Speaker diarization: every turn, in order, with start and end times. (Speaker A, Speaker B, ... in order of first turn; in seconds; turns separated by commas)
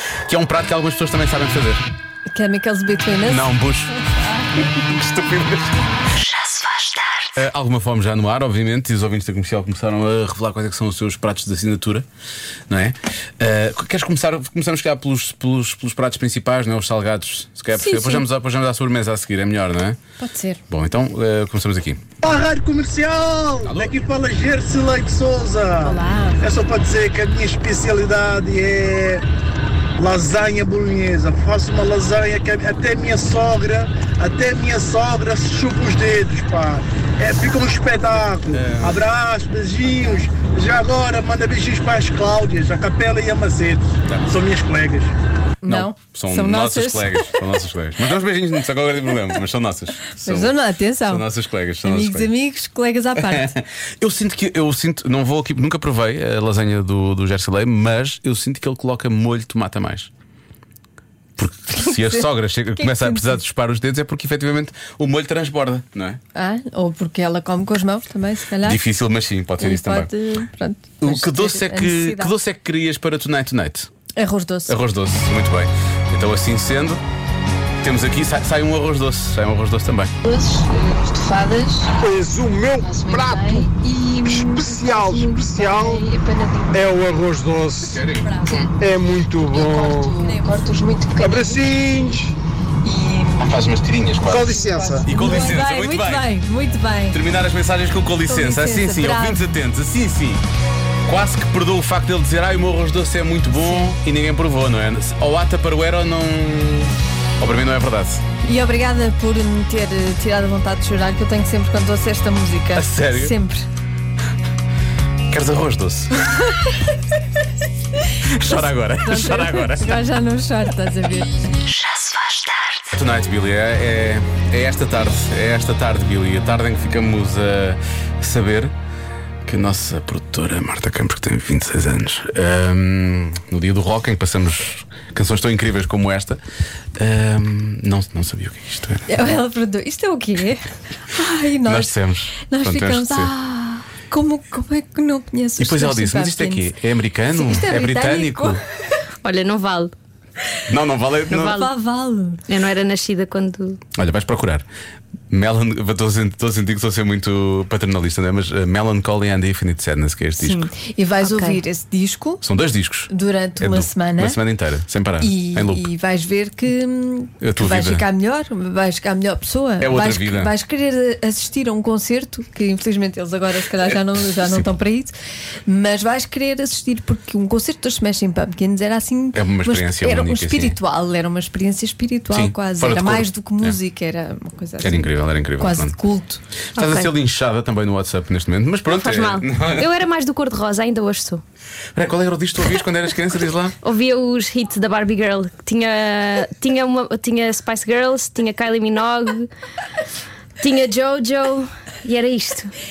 Speaker A: 0.3-1.8, Speaker B: 2.3-4.8, Speaker A: 3.2-3.9, Speaker A: 4.6-5.8, Speaker C: 6.1-7.4, Speaker A: 7.3-12.1, Speaker A: 12.7-20.0, Speaker B: 17.7-18.3, Speaker B: 20.2-20.6, Speaker A: 20.7-22.0, Speaker D: 22.2-29.2, Speaker A: 23.6-24.0, Speaker B: 25.8-26.4, Speaker D: 30.0-45.1, Speaker A: 38.5-39.0, Speaker B: 45.6-47.4, Speaker A: 45.7-52.3, Speaker B: 50.2-51.3, Speaker B: 51.8-53.5, Speaker A: 53.2-60.1, Speaker A: 61.4-66.2, Speaker B: 61.7-63.4, Speaker B: 66.3-68.8, Speaker A: 68.6-70.1, Speaker B: 69.6-72.3, Speaker A: 71.0-73.9, Speaker B: 74.2-74.8, Speaker A: 74.7-77.0, Speaker A: 77.8-80.1, Speaker B: 80.2-82.0, Speaker D: 82.0-86.1, Speaker B: 82.8-87.0, Speaker D: 86.7-90.2, Speaker A: 87.8-88.4, Speaker B: 88.1-88.7, Speaker B: 89.4-91.8, Speaker D: 91.2-92.3, Speaker B: 92.8-93.4, Speaker A: 93.4-96.3, Speaker D: 94.2-95.1, Speaker B: 94.6-97.2, Speaker A: 97.1-100.4, Speaker B: 98.3-99.5, Speaker A: 101.1-108.2, Speaker B: 103.6-103.9, Speaker B: 108.4-113.7, Speaker A: 112.7-113.4, Speaker A: 115.3-116.5, Speaker B: 116.4-116.8, Speaker A: 118.2-120.1, Speaker B: 119.0-121.3, Speaker C: 121.6-123.0, Speaker A: 122.9-128.8, Speaker A: 129.5-136.4, Speaker A: 137.0-139.2, Speaker B: 139.1-146.7, Speaker A: 141.7-143.3, Speaker A: 145.6-148.6, Speaker B: 147.3-148.6, Speaker C: 149.2-149.9, Speaker A: 150.7-151.6, Speaker C: 151.3-151.7, Speaker B: 151.3-152.4, Speaker C: 152.5-153.8, Speaker A: 153.9-154.7, Speaker A: 155.3-160.7, Speaker B: 160.4-162.4, Speaker C: 161.2-161.6, Speaker A: 162.4-165.9, Speaker B: 163.1-164.4, Speaker B: 165.2-175.1, Speaker A: 167.4-168.1, Speaker A: 169.8-170.5, Speaker A: 174.3-174.7, Speaker B: 175.7-186.4, Speaker A: 179.3-180.8, Speaker A: 182.3-183.8, Speaker A: 184.8-186.0, Speaker A: 186.8-189.9, Speaker C: 186.8-187.1, Speaker C: 188.9-191.4, Speaker A: 191.9-193.8, Speaker C: 193.8-199.5, Speaker C: 200.6-202.7